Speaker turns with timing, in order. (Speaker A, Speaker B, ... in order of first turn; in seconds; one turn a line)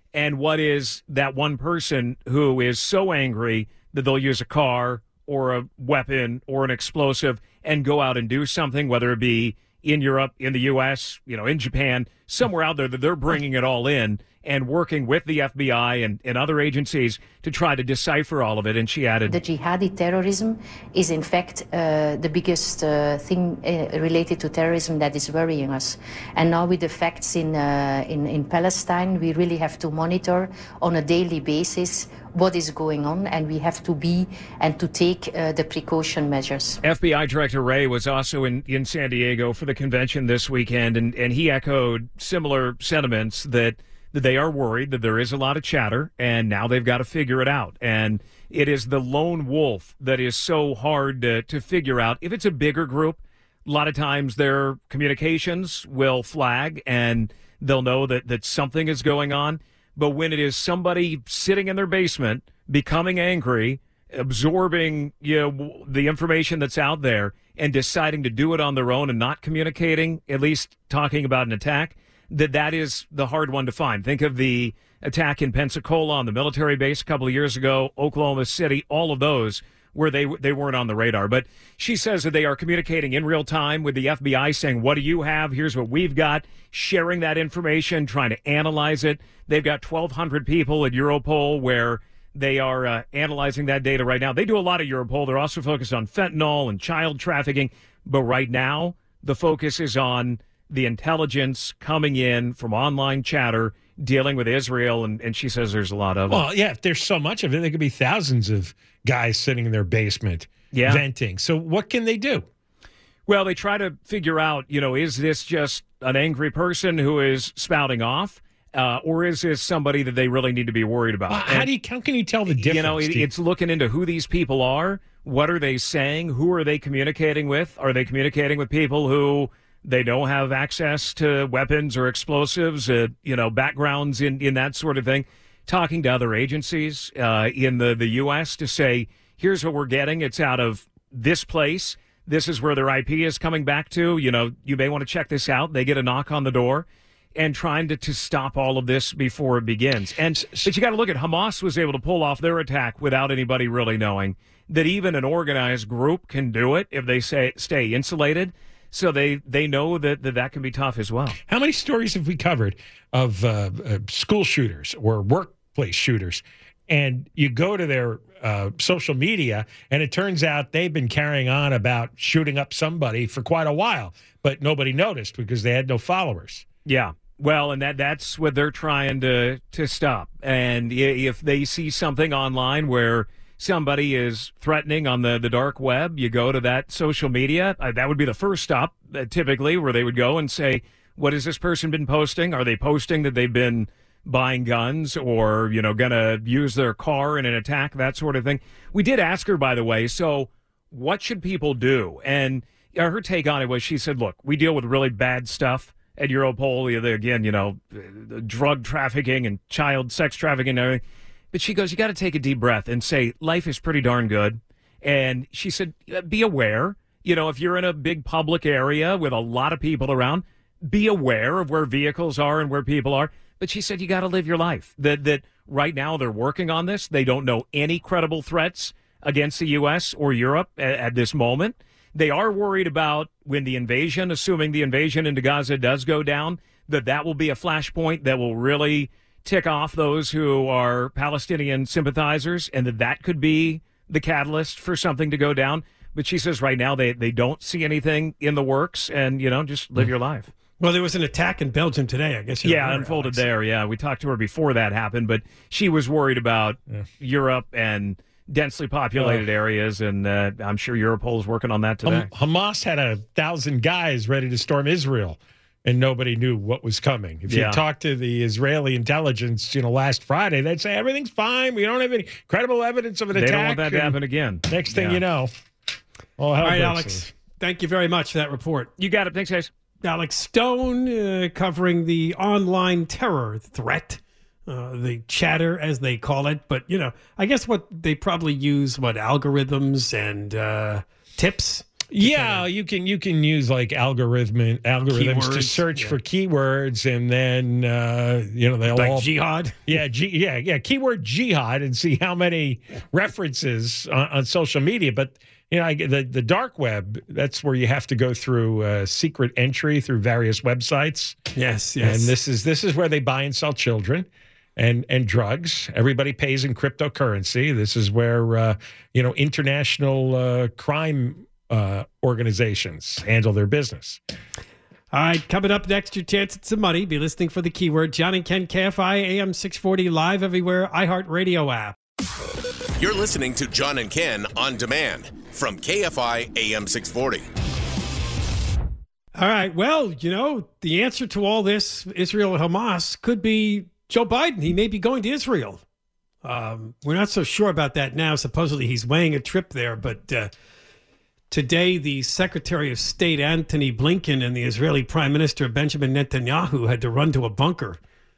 Speaker A: 0.1-19.4
Speaker B: 19.3-36.8
Speaker A: 36.8-106.4
Speaker C: 106.3-112.5
Speaker A: 110.7-111.0
Speaker A: 113.3-121.7
Speaker C: 121.3-123.3
Speaker A: 122.5-161.4
Speaker C: 150.3-150.7
Speaker C: 161.5-176.6
Speaker A: 176.8-211.0
Speaker A: 211.5-250.5
Speaker D: 250.8-253.4
Speaker A: 252.6-262.3
Speaker C: 262.0-275.5
Speaker A: 267.5-267.8
Speaker A: 273.3-275.2
Speaker C: 276.4-277.3
Speaker D: 276.6-278.9
Speaker A: 279.0-279.7
Speaker D: 280.0-292.6
Speaker C: 292.1-299.3
Speaker D: 295.1-296.2
Speaker D: 298.9-299.8
Speaker C: 299.9-311.3
Speaker D: 311.5-312.3
Speaker C: 312.0-324.2
Speaker D: 325.1-331.9
Speaker E: 333.0-337.4
Speaker D: 339.4-345.8
Speaker D: 346.4-350.5
Speaker D: 351.5-358.0